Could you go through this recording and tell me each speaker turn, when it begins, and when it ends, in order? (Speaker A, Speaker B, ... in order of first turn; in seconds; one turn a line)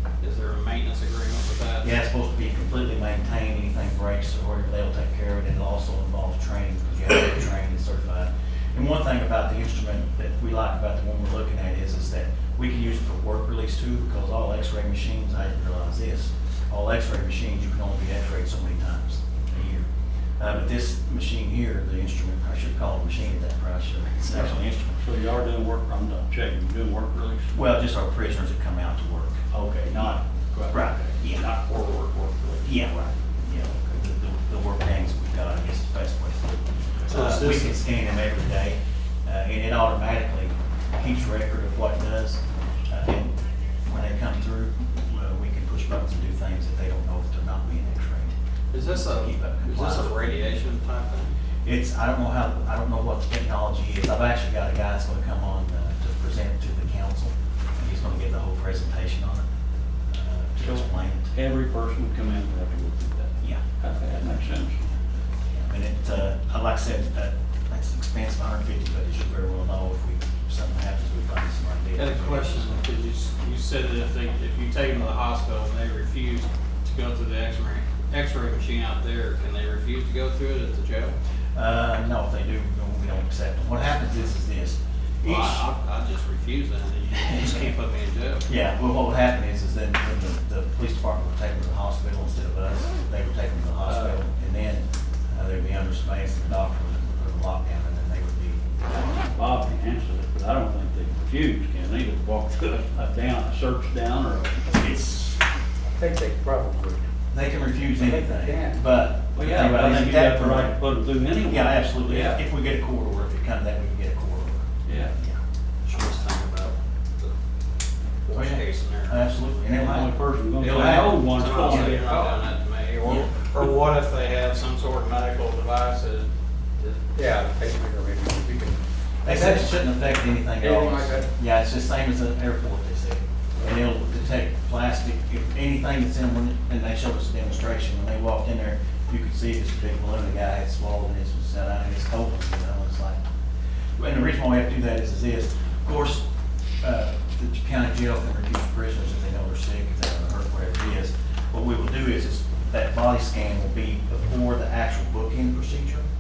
Speaker A: 0.2-1.9
Speaker B: 1.8-19.9
Speaker B: 20.4-25.0
Speaker C: 24.3-27.6
Speaker B: 27.5-30.2
Speaker C: 29.5-32.7
Speaker B: 30.7-31.5
Speaker B: 32.6-43.3
Speaker A: 37.1-37.7
Speaker B: 43.9-50.2
Speaker A: 48.7-51.4
Speaker B: 51.6-59.5
Speaker B: 60.1-61.3
Speaker C: 60.6-64.9
Speaker B: 65.5-72.8
Speaker A: 72.0-81.2
Speaker B: 81.5-85.7
Speaker A: 85.2-88.5
Speaker B: 87.1-87.6
Speaker B: 88.5-99.2
Speaker C: 93.9-94.2
Speaker C: 99.3-104.8
Speaker B: 104.7-105.4
Speaker D: 105.9-107.0
Speaker B: 107.3-110.8
Speaker D: 107.9-108.8
Speaker C: 109.3-112.4
Speaker B: 111.4-114.7
Speaker C: 114.9-115.1
Speaker A: 115.9-117.3
Speaker A: 118.2-119.2
Speaker B: 118.3-121.9
Speaker C: 119.8-122.4
Speaker A: 120.7-127.0
Speaker B: 123.0-123.3
Speaker D: 127.2-129.7
Speaker B: 129.2-143.2
Speaker D: 130.6-131.3
Speaker B: 144.0-146.2
Speaker B: 146.8-156.1